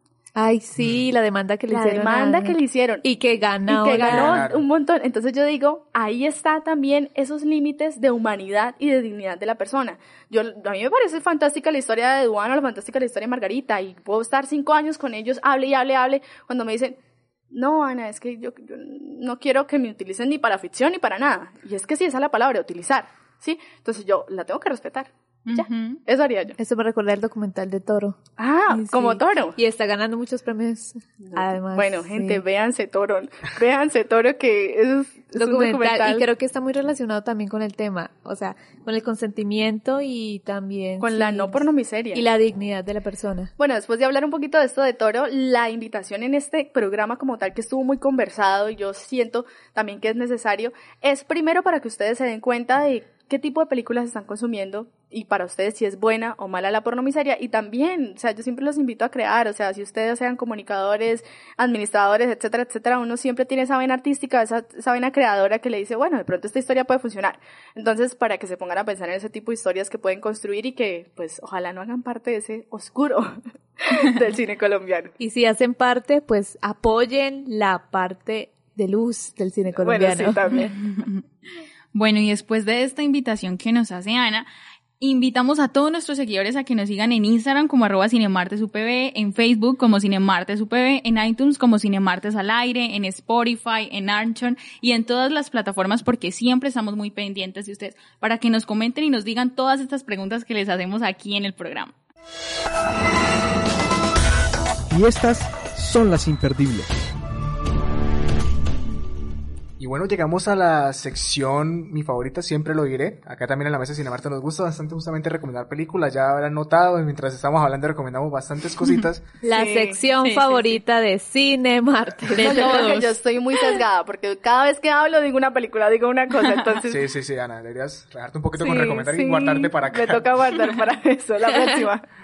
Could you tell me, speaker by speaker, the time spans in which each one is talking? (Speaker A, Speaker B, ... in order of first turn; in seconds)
Speaker A: 0.3-4.4, 26.6-32.4, 35.3-43.5, 75.2-80.4, 119.4-122.9
Speaker B: 1.7-3.0, 3.7-17.0, 17.5-26.6, 28.4-29.6, 31.2-36.3, 41.0-42.2, 43.6-75.1, 79.8-80.7, 119.4-120.0, 122.4-127.0, 128.6-132.0
Speaker C: 4.0-4.6, 109.8-119.3, 126.8-130.3
Speaker D: 25.5-26.0, 80.5-81.2, 81.9-84.5, 85.0-101.9, 120.2-120.6, 122.3-123.2
Speaker E: 104.9-107.0